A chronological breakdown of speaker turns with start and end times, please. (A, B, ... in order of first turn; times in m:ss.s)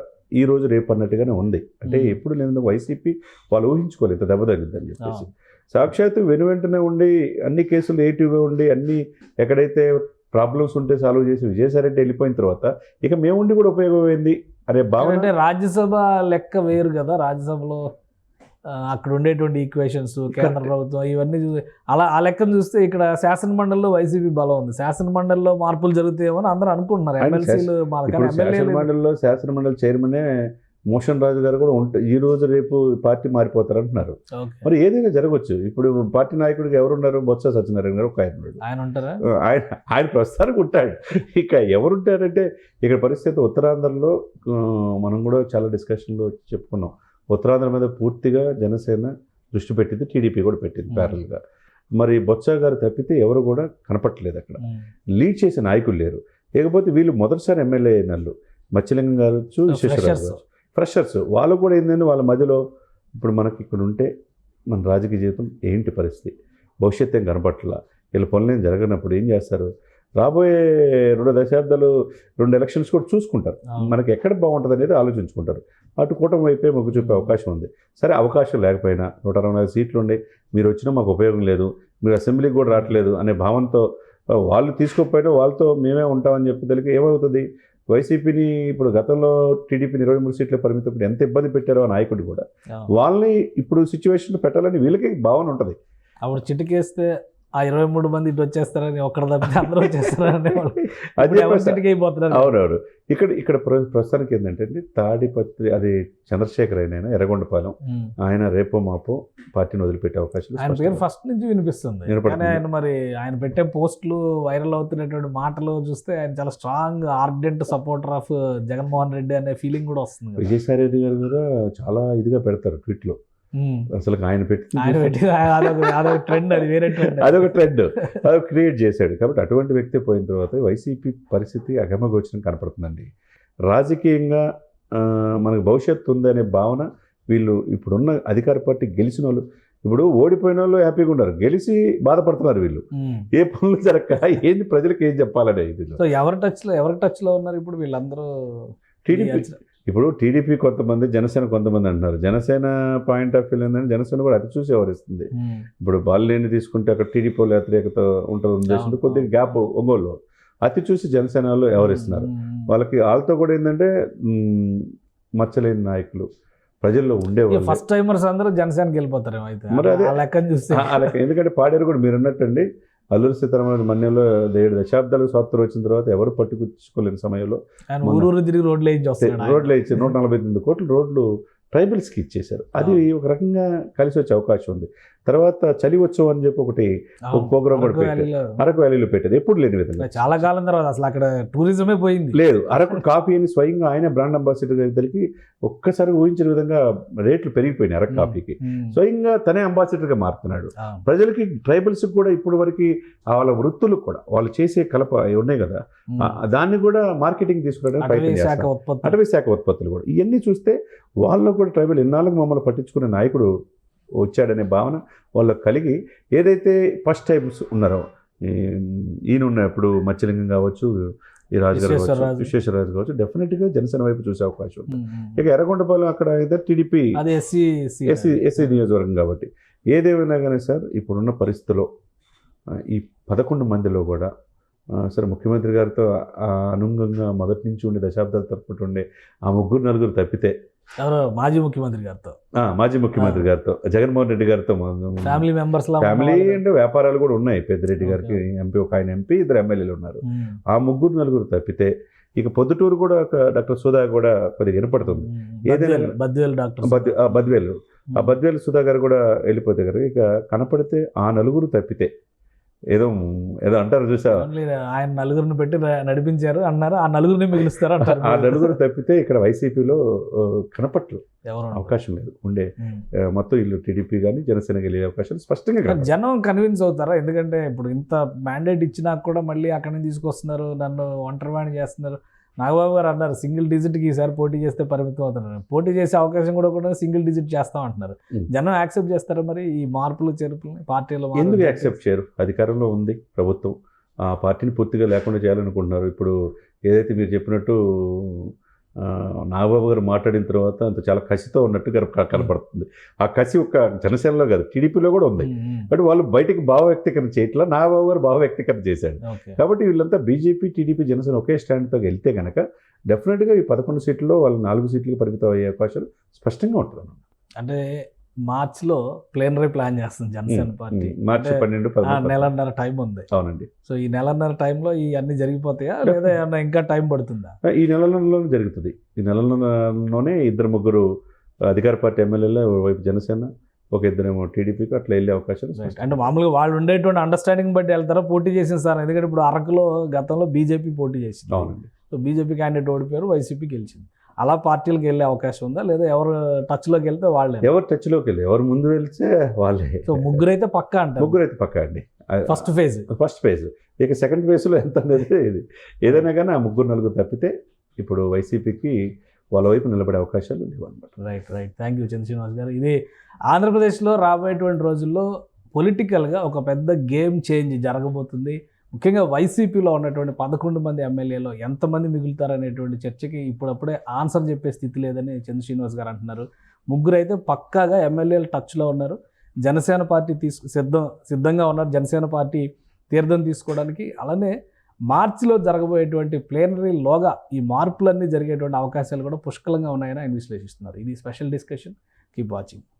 0:00.4-0:15.3 A
0:01.8-0:02.2 B
0:05.0-0:05.3 B
0:15.0-0:17.8 B
0:18.7-0:28.9 B
0:20.3-0:20.7 A
0:27.2-0:38.6 A
0:34.3-0:34.7 B
0:38.6-0:39.2 B
0:39.3-0:51.4 A
0:50.9-0:51.2 B
0:52.0-0:54.6 A
0:54.6-0:54.9 B
0:55.2-1:02.6 A
0:59.7-1:00.4 B
1:03.2-1:04.1 A
1:04.7-1:35.8 A
1:16.9-1:17.4 B
1:22.7-1:23.0 B
1:36.2-1:37.1 B
1:37.6-1:42.5 B
1:39.6-1:51.0 A
1:47.8-1:48.1 B
1:50.6-2:00.5 B
1:52.1-1:52.6 A
2:00.4-2:03.2 A
2:03.6-2:03.9 B
2:03.9-2:13.1 A
2:04.8-2:08.2 B
2:13.7-2:22.8 A
2:22.9-2:23.3 B
2:23.3-2:26.0 A
2:26.0-2:29.6 B
2:29.0-2:35.3 A
2:35.4-2:35.7 B
2:35.8-2:46.3 A
2:38.7-2:39.6 B
2:41.7-2:42.8 B
2:46.8-2:47.8 A
2:47.5-2:51.2 B
2:49.7-2:50.2 A
2:50.7-2:58.3 A
2:57.9-3:00.1 B
2:59.2-3:10.4 A
3:02.8-3:03.1 B
3:07.3-3:08.6 B
3:10.0-3:13.0 B
3:12.3-3:33.5 A
3:18.1-3:19.0 B
3:20.8-3:21.0 B
3:26.1-3:26.4 B
3:28.0-3:29.2 B
3:34.2-3:40.9 A
3:41.6-3:47.2 A
3:41.7-3:42.5 B
3:44.9-3:45.4 B
3:47.1-3:48.8 B
3:48.1-3:51.9 A
3:52.7-3:54.3 A
3:54.9-4:00.5 A
4:01.0-4:02.4 B
4:02.6-4:05.5 A
4:03.2-4:03.5 B
4:05.2-4:06.6 B
4:06.0-4:16.1 A
4:08.0-4:08.4 B
4:10.2-4:10.6 B
4:15.0-4:17.6 B
4:16.8-4:22.1 A
4:18.1-4:18.4 B
4:22.9-4:24.5 A
4:24.3-4:28.8 B
4:28.0-4:32.7 A
4:31.4-4:32.0 B
4:32.8-4:33.0 B
4:33.2-4:36.1 A
4:35.8-4:52.0 B
4:51.3-4:56.4 A
4:56.9-5:17.2 A
5:05.4-5:05.9 B
5:09.2-5:09.6 B
5:17.6-5:23.3 B
5:20.5-5:22.5 A
5:23.3-5:23.7 A
5:23.8-5:27.5 B
5:26.0-5:26.4 A
5:27.6-5:31.1 A
5:31.6-5:36.3 A
5:35.8-5:47.7 B
5:41.5-5:41.9 A
5:47.6-5:50.4 A
5:50.1-5:51.4 B
5:51.2-5:59.0 A
5:52.5-5:53.1 B
5:59.5-6:01.1 A
6:01.2-6:03.0 B
6:03.5-6:24.5 B
6:25.1-6:32.8 B